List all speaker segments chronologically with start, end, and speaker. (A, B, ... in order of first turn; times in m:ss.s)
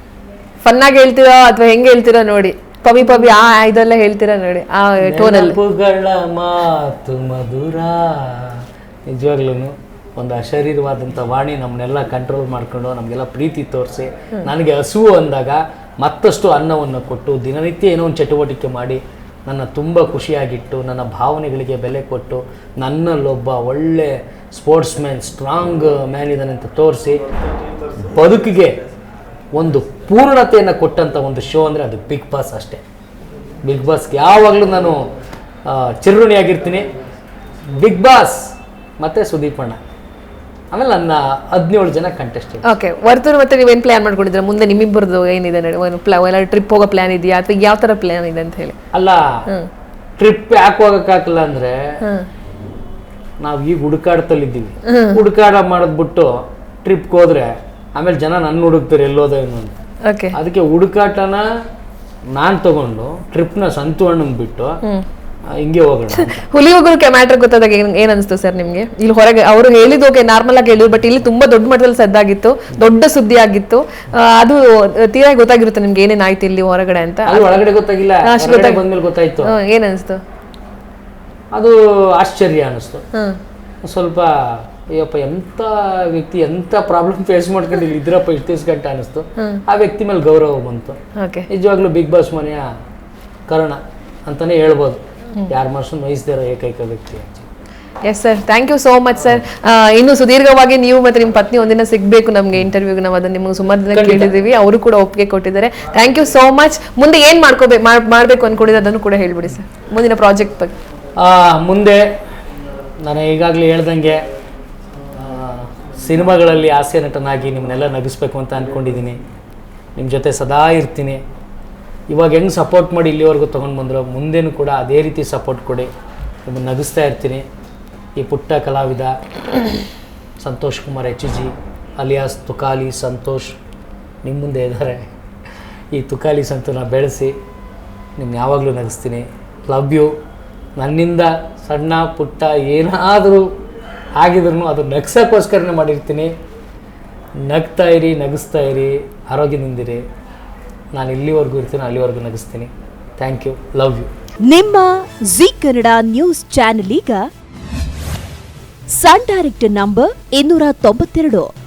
0:00.6-0:05.6 A
0:05.0-0:27.2 B
0:27.9-0:28.8 B
0:29.5-0:32.8 B
0:33.6-0:35.1 B
0:35.6-0:36.9 B
0:37.7-0:38.4 B
0:39.0-0:39.8 B
0:40.7-0:42.6 B
0:42.6-0:48.8 A
0:48.9-0:49.2 B
0:50.2-0:52.0 B
0:53.4-0:59.8 B
0:54.9-0:55.2 A
1:00.1-1:00.3 A
1:00.3-1:01.4 B
1:02.3-1:04.8 B
1:05.6-1:06.4 B
1:06.2-1:17.6 A
1:17.2-1:19.5 B
1:18.2-1:18.8 A
1:19.4-1:20.2 A
1:21.5-1:23.0 B
1:23.8-1:31.0 B
1:31.2-1:31.5 A
1:31.5-1:32.6 B
1:33.5-1:37.5 B
1:38.0-1:50.8 A
1:43.9-1:44.3 B
1:51.2-1:52.0 B
1:53.0-1:54.2 B
1:55.2-1:59.2 B
2:00.0-2:01.2 B
2:02.1-2:05.9 B
2:06.4-2:07.4 B
2:08.2-2:09.1 B
2:10.4-2:13.6 B
2:14.2-2:15.0 B
2:15.9-2:17.3 B
2:18.2-2:20.1 B
2:20.8-2:23.5 B
2:24.2-2:26.3 B
2:27.4-2:30.0 B
2:30.9-2:34.1 B
2:34.4-2:37.3 C
2:38.9-2:41.5 C